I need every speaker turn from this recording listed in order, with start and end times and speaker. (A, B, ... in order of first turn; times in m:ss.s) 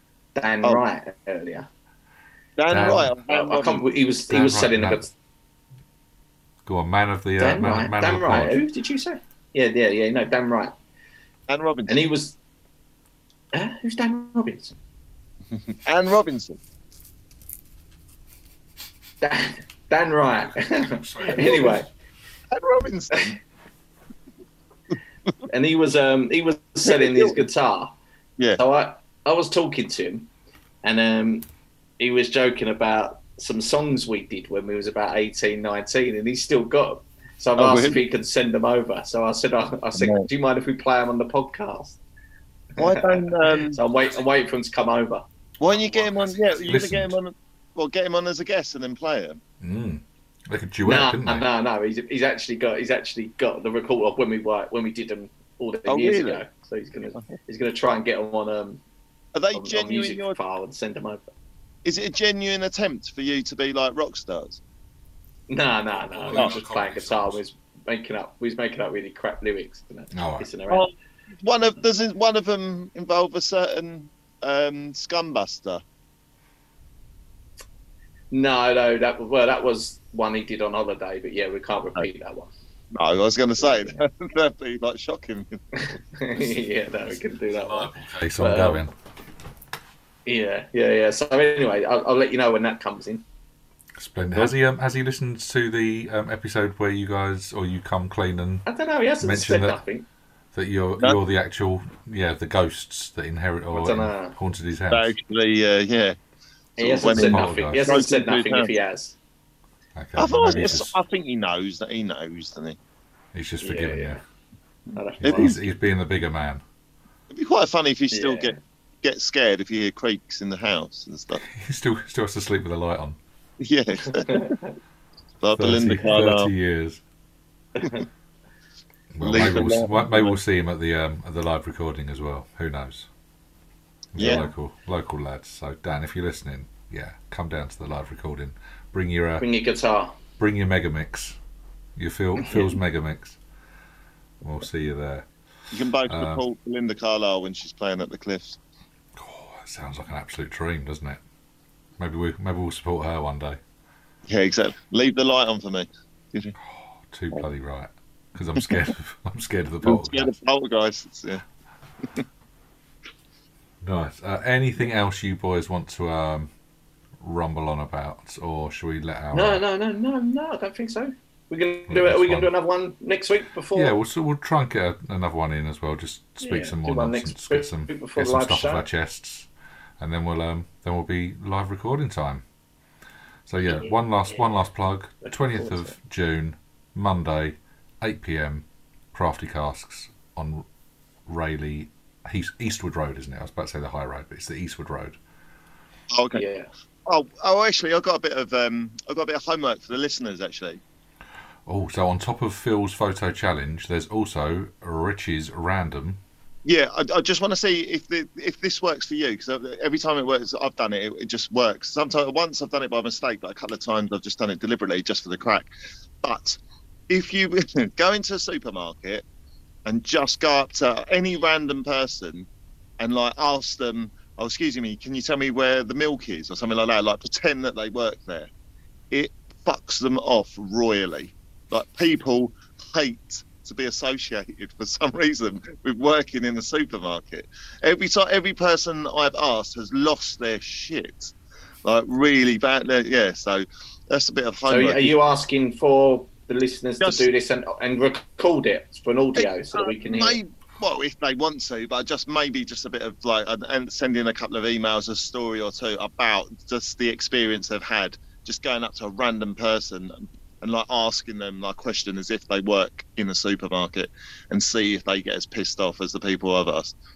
0:00.3-0:01.7 A
0:02.6-0:03.8 B
0:02.7-0:03.1 C
0:03.3-0:05.1 A
0:04.3-0:05.0 C
0:06.6-0:08.6 C
0:07.4-0:10.7 A
0:11.5-0:12.0 B
0:11.9-0:12.4 A
0:13.5-0:14.8 A
0:15.8-0:16.6 B
0:19.2-0:21.9 A
0:20.4-0:21.8 C
0:21.2-0:21.8 B
0:22.5-0:23.4 B
0:25.5-0:27.9 A
0:26.8-0:27.4 B
0:28.6-0:30.3 A
0:30.8-0:31.5 A
0:32.0-0:42.0 A
0:37.6-0:38.0 B
0:39.9-0:40.3 B
0:42.8-0:45.2 A
0:42.8-0:43.8 B
0:43.9-0:44.3 C
0:45.6-0:49.4 B
0:45.7-0:47.2 C
0:49.6-0:51.4 C
0:50.8-0:58.8 A
0:55.8-0:56.4 B
0:59.3-1:00.4 B
0:59.5-1:01.2 A
1:01.8-1:04.6 B
1:05.5-1:10.8 A
1:06.1-1:07.4 C
1:10.1-1:10.5 C
1:11.4-1:15.8 B
1:18.3-1:22.5 A
1:22.9-1:25.6 B
1:25.7-1:28.8 A
1:26.4-1:26.6 C
1:27.5-1:28.9 C
1:30.2-1:33.2 A
1:34.0-1:38.6 C
1:38.6-1:40.0 A
1:39.2-1:39.8 C
1:40.5-1:45.1 C
1:43.7-1:44.4 A
1:44.9-1:46.2 B
1:46.8-1:48.7 B
1:46.8-1:49.2 A
1:47.1-1:47.9 C
1:49.9-1:50.9 C
1:50.2-1:52.8 B
1:53.3-1:54.2 C
1:53.6-1:54.2 A
1:54.9-1:55.6 A
1:55.2-1:55.6 B
1:55.2-1:56.6 C
1:57.3-2:01.4 B
1:58.1-1:58.6 A
2:01.4-2:03.2 C
2:03.6-2:04.5 B
2:04.1-2:04.6 A
2:05.4-2:06.5 B
2:05.5-2:07.0 C
2:09.1-2:13.1 C
2:09.2-2:10.4 B
2:14.1-2:19.4 C
2:14.2-2:14.4 B
2:19.4-2:20.2 A
2:20.4-2:21.4 C
2:22.0-2:23.4 C
2:22.4-2:22.7 A
2:24.4-2:25.3 C
2:25.7-2:28.6 B
2:26.1-2:26.4 C
2:29.1-2:31.2 C
2:32.0-2:33.6 C
2:34.3-2:36.5 B
2:36.6-2:40.3 C
2:39.8-2:41.4 B
2:43.8-2:46.5 C
2:47.2-2:49.6 C
2:49.3-2:53.9 A
2:51.9-2:52.5 C
2:53.7-3:02.4 C
2:56.4-2:58.8 A
3:03.5-3:10.6 C
3:05.3-3:05.9 A
3:11.2-3:15.2 C
3:16.1-3:16.4 B
3:16.3-3:16.7 A
3:17.0-3:20.8 B
3:21.6-3:26.2 C
3:26.6-3:35.7 B
3:36.2-3:39.2 B
3:39.8-3:48.5 B
3:49.1-4:01.3 B
4:01.8-4:05.2 B
4:04.7-4:10.4 A
4:07.0-4:07.3 B
4:09.3-4:26.9 B